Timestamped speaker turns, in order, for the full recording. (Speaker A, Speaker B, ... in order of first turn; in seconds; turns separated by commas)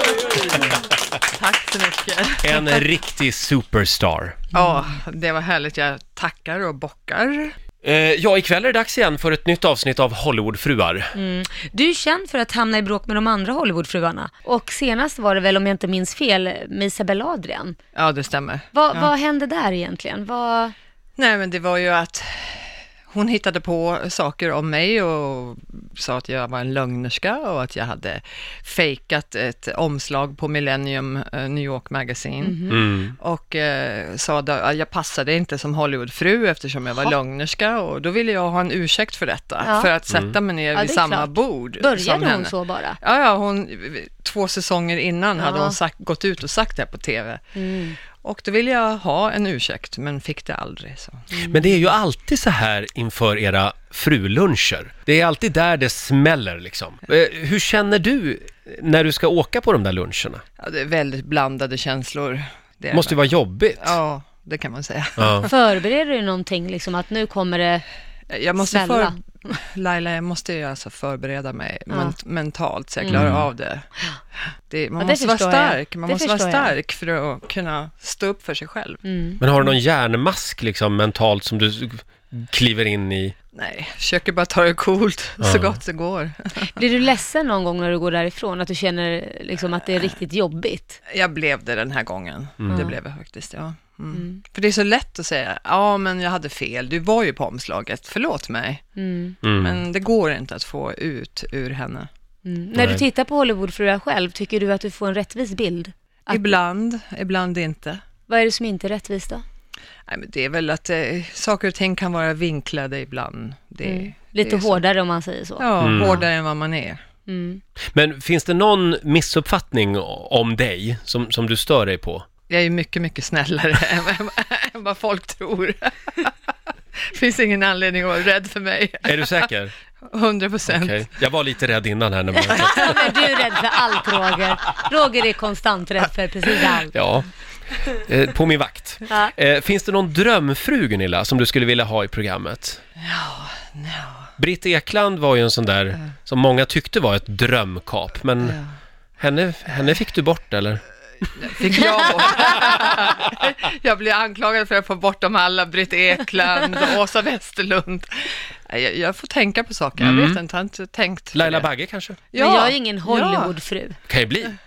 Speaker A: 1.2-2.9, Speaker B: 2.4-4.4, Speaker A: 4.5-7.5, Speaker B: 7.8-11.1, Speaker C: 11.2-17.8, Speaker A: 17.9-19.1, Speaker C: 18.7-20.7, Speaker A: 21.2-47.5, Speaker C: 32.4-32.8, Speaker B: 32.7-33.1, Speaker C: 39.6-39.9, Speaker C: 40.7-43.0, Speaker C: 45.4-45.8, Speaker C: 47.6-48.0, Speaker A: 48.2-51.3, Speaker B: 51.3-60.4, Speaker C: 51.4-51.7, Speaker A: 60.6-63.2, Speaker B: 62.9-64.0, Speaker A: 63.8-65.5, Speaker B: 65.2-65.5, Speaker C: 65.5-67.8, Speaker A: 68.3-73.9, Speaker C: 68.6-69.2, Speaker C: 73.0-73.3, Speaker B: 73.1-73.5, Speaker A: 74.7-79.0, Speaker C: 75.0-76.7, Speaker C: 79.0-79.4, Speaker B: 79.4-83.3, Speaker A: 83.5-86.8, Speaker B: 85.4-85.8, Speaker C: 86.8-91.0, Speaker A: 91.1-98.8, Speaker C: 92.7-93.0, Speaker C: 94.1-94.4, Speaker C: 99.0-99.4, Speaker B: 99.4-99.8, Speaker A: 99.6-102.1, Speaker C: 102.5-106.5, Speaker B: 102.7-103.0, Speaker A: 106.3-108.0, Speaker C: 108.3-109.4, Speaker A: 110.1-114.8, Speaker C: 113.8-116.2, Speaker A: 115.6-117.0, Speaker B: 115.8-116.2, Speaker C: 117.3-117.6, Speaker B: 117.9-122.3, Speaker A: 122.5-126.3, Speaker A: 127.1-129.5, Speaker B: 129.0-129.7, Speaker A: 130.1-131.1, Speaker B: 130.7-133.1, Speaker A: 132.4-133.1, Speaker C: 132.6-136.9, Speaker A: 134.1-134.4, Speaker B: 136.9-137.3, Speaker B: 137.9-142.8, Speaker A: 143.0-144.3, Speaker B: 144.4-148.6, Speaker A: 148.4-148.7, Speaker B: 149.2-150.8, Speaker A: 151.4-161.7, Speaker B: 160.0-160.4, Speaker B: 161.3-162.2, Speaker A: 162.3-163.5, Speaker C: 162.3-164.0, Speaker B: 164.1-164.6